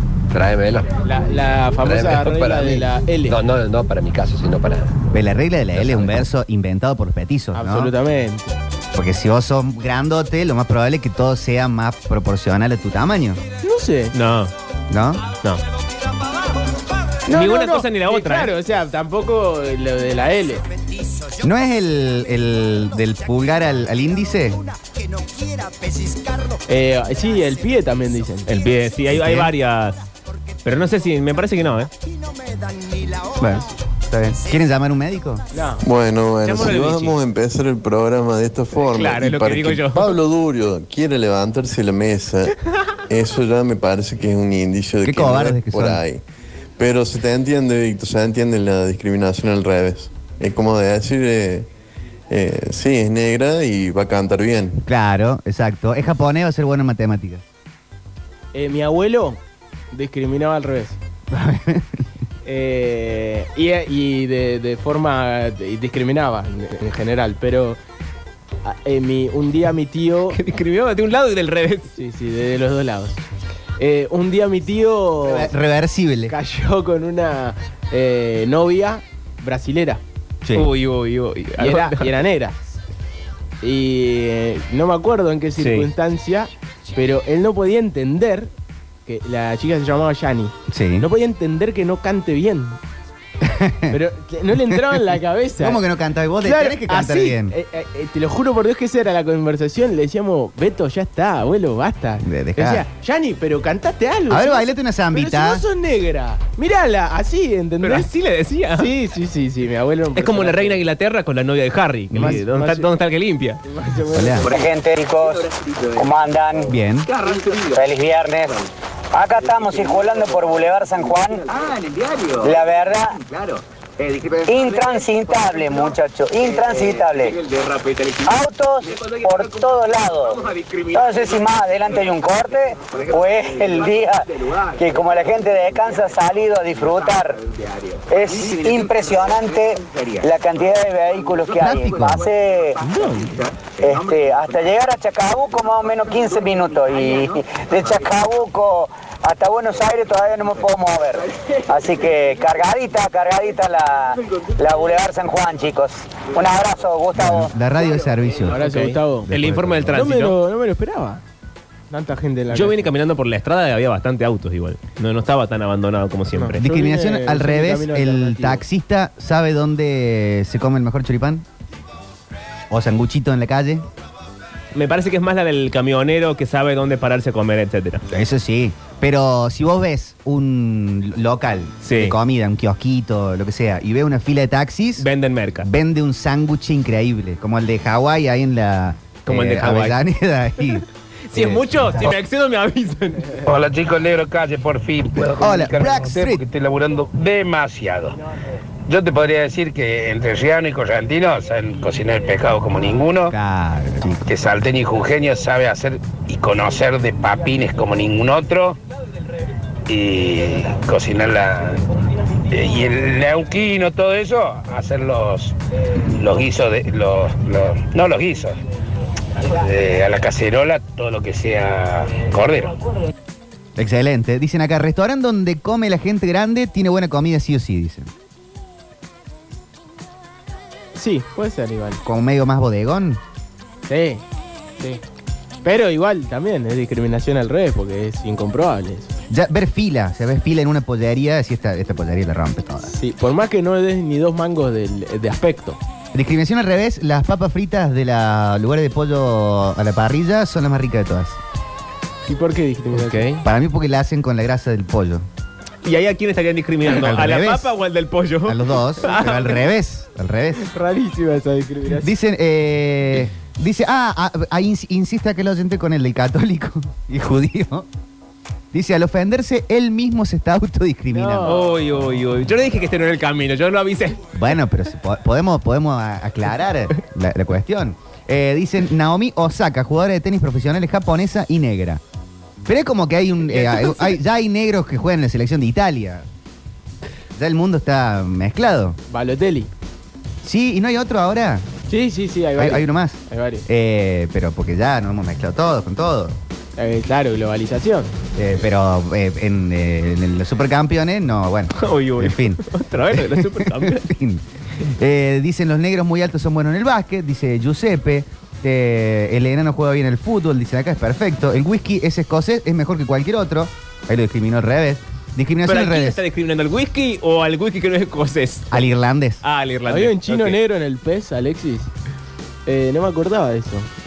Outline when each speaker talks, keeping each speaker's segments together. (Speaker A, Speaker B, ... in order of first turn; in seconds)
Speaker A: 0.3-0.9, 1.8-5.0, 5.8-6.2, 117.1-117.8, 121.6-122.3, 123.4-124.3
Speaker B: 1.0-3.4, 7.5-8.6, 13.6-14.2, 17.3-20.7, 26.7-28.6, 35.5-35.9, 36.5-36.8, 58.5-59.4, 59.9-61.0, 62.5-67.8, 68.6-70.4, 71.9-73.2, 73.8-75.5, 76.3-80.0, 81.6-82.6, 83.6-88.5, 89.1-92.8, 93.9-95.8, 96.4-108.1, 108.7-110.9, 112.1-112.9, 113.6-114.7, 158.4-159.3, 159.9-161.2, 161.9-162.8, 166.3-168.7, 230.9-232.0, 233.9-234.2, 235.6-239.1, 242.9-245.8, 252.3-253.4, 260.6-262.2, 271.1-271.8, 289.1-289.7, 291.9-293.7, 296.8-298.1, 319.9-321.9, 322.6-323.9
Speaker C: 5.1-7.9, 8.9-13.4, 14.9-15.3, 21.4-24.7, 29.1-29.5, 33.3-35.5, 45.0-46.0, 54.9-57.4, 61.3-62.1, 75.2-76.3, 80.4-80.7, 90.7-91.1, 93.4-94.0, 94.7-95.0, 95.6-97.6, 102.2-102.8, 104.3-105.6, 112.1-112.4, 114.1-114.5, 116.6-117.1, 141.6-142.3, 142.9-143.4, 157.2-158.6, 159.2-160.1, 166.6-171.5, 172.7-173.8, 178.1-185.1, 185.6-192.2, 195.2-196.4, 203.3-204.2, 223.8-228.1, 232.0-233.2, 239.3-242.9, 246.1-251.4, 253.4-255.3, 256.9-257.7, 258.5-260.7, 262.0-267.9, 268.7-271.6, 274.3-282.0, 282.7-286.2, 287.4-289.0, 290.4-291.7, 292.6-296.4, 298.4-316.2, 318.7-319.4
Speaker D: 14.1-14.5, 17.3-18.5, 28.5-30.0, 30.6-31.9, 36.5-37.1, 38.8-40.1, 70.3-71.9, 80.5-82.1, 85.6-85.9, 107.8-108.9, 110.2-113.6, 142.9-143.2, 158.4-160.4, 162.5-166.6, 174.7-178.0, 181.8-182.2, 185.0-185.7, 189.3-190.0, 191.3-193.5, 255.8-259.7, 271.4-274.2, 283.6-283.8, 301.8-304.1, 315.6-318.9, 319.4-320.6
Speaker E: 35.8-42.6, 43.1-46.2, 46.8-51.7, 52.3-54.8
Speaker F: 114.4-116.7, 117.6-118.6, 119.1-121.5, 122.4-123.2, 124.4-127.4, 128.2-137.4, 138.1-142.8, 143.7-157.5
Speaker G: 193.4-198.2, 198.9-203.3, 204.3-208.8, 209.9-211.8, 212.5-215.6, 216.1-218.6, 219.4-222.8